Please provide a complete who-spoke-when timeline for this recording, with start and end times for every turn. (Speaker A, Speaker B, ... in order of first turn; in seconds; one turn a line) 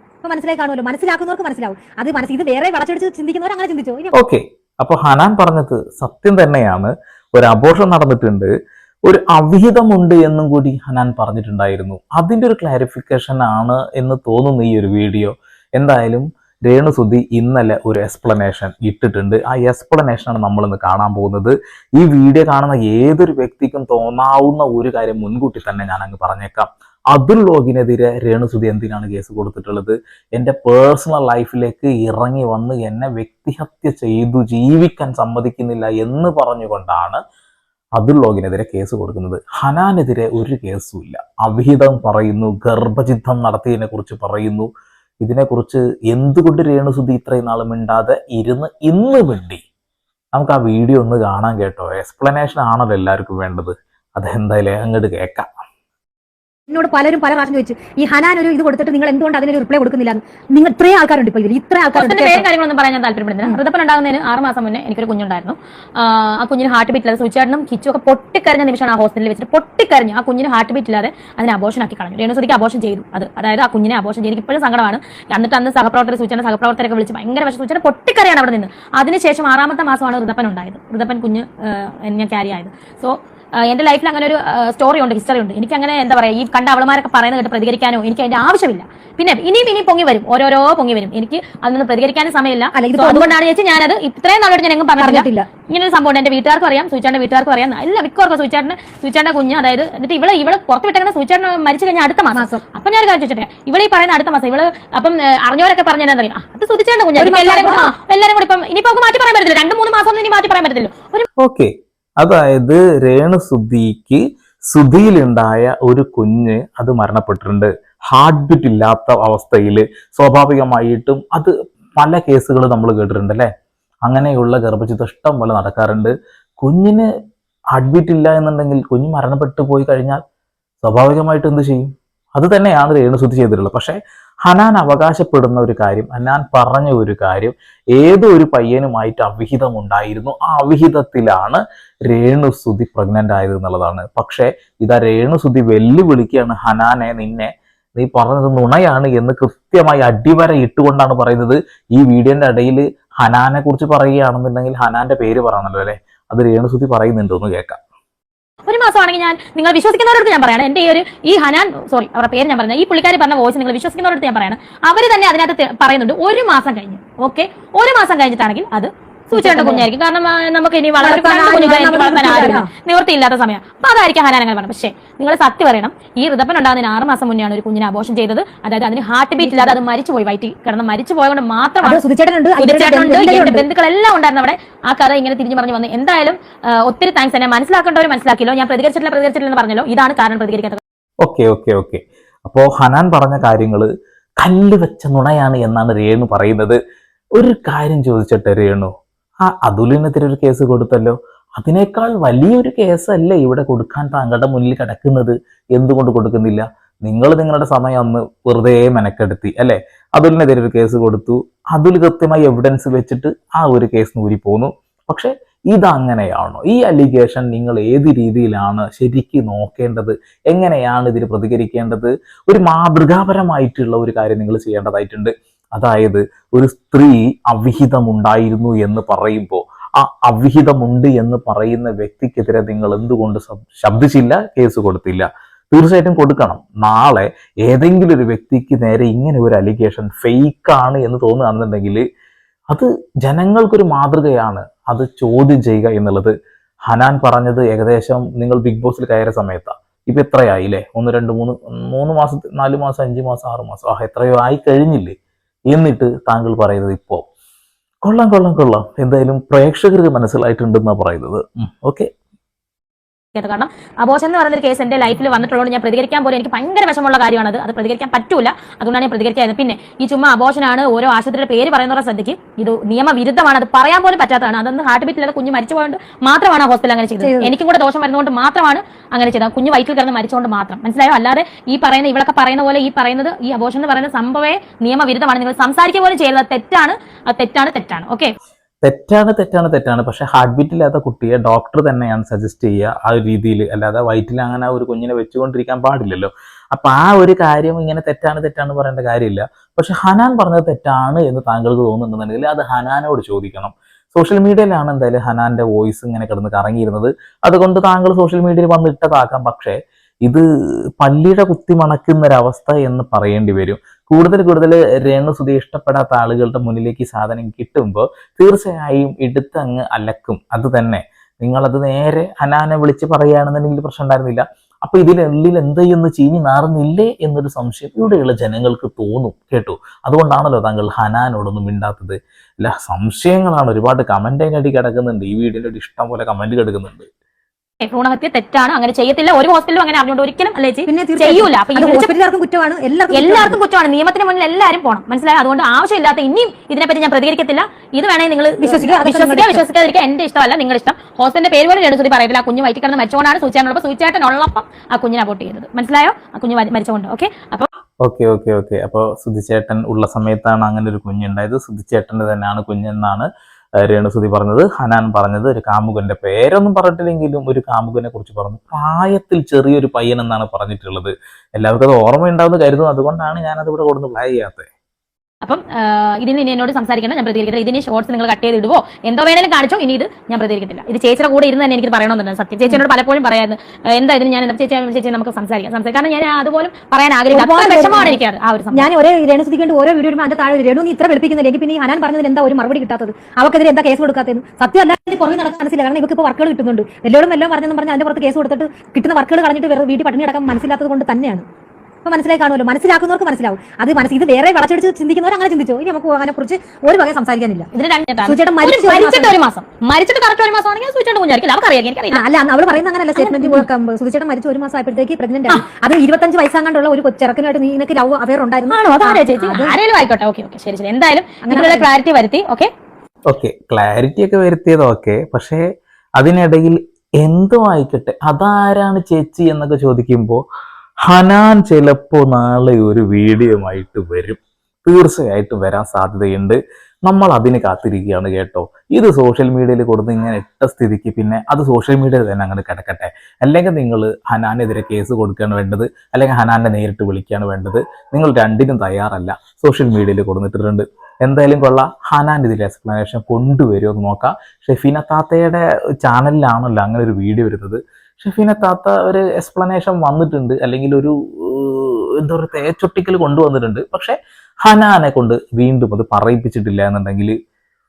Speaker A: 0.2-4.1
Speaker B: 4.1-8.5
Speaker B: 9.1-37.2
Speaker B: 38.0-44.7
Speaker B: 45.2-49.6
Speaker B: 50.3-55.5
Speaker A: 56.7-62.4
Speaker C: 61.9-111.3
Speaker A: 92.7-93.3
Speaker A: 95.0-95.5
Speaker A: 102.3-102.6
Speaker A: 107.2-107.9
Speaker B: 111.4-123.5
Speaker B: 124.1-127.1
Speaker B: 127.7-130.2
Speaker B: 130.8-157.8
Speaker C: 158.7-182.0
Speaker A: 169.3-169.9
Speaker A: 171.0-172.7
Speaker A: 179.4-179.8
Speaker A: 181.8-183.7
Speaker C: 182.6-190.8
Speaker B: 191.2-193.9
Speaker B: 194.4-196.8
Speaker B: 197.4-198.9
Speaker B: 199.4-242.0
Speaker B: 242.7-246.3
Speaker B: 246.9-255.2
Speaker B: 255.7-257.2
Speaker B: 258.0-262.1
Speaker C: 263.3-288.3
Speaker A: 277.2-277.5
Speaker B: 288.8-310.4
Speaker B: 311.0-337.1
Speaker C: 337.8-342.1
Speaker A: 340.9-343.6
Speaker C: 343.1-357.7
Speaker A: 348.6-349.6
Speaker B: 358.0-374.7
Speaker C: 375.4-388.9
Speaker A: 387.3-388.2
Speaker A: 388.7-401.4
Speaker A: 402.0-407.7
Speaker C: 407.7-412.2
Speaker A: 408.2-409.4
Speaker A: 412.1-419.8
Speaker C: 413.1-413.7
Speaker C: 418.7-422.7
Speaker A: 421.4-421.9
Speaker B: 423.3-425.6
Speaker B: 426.2-430.4
Speaker B: 431.1-467.4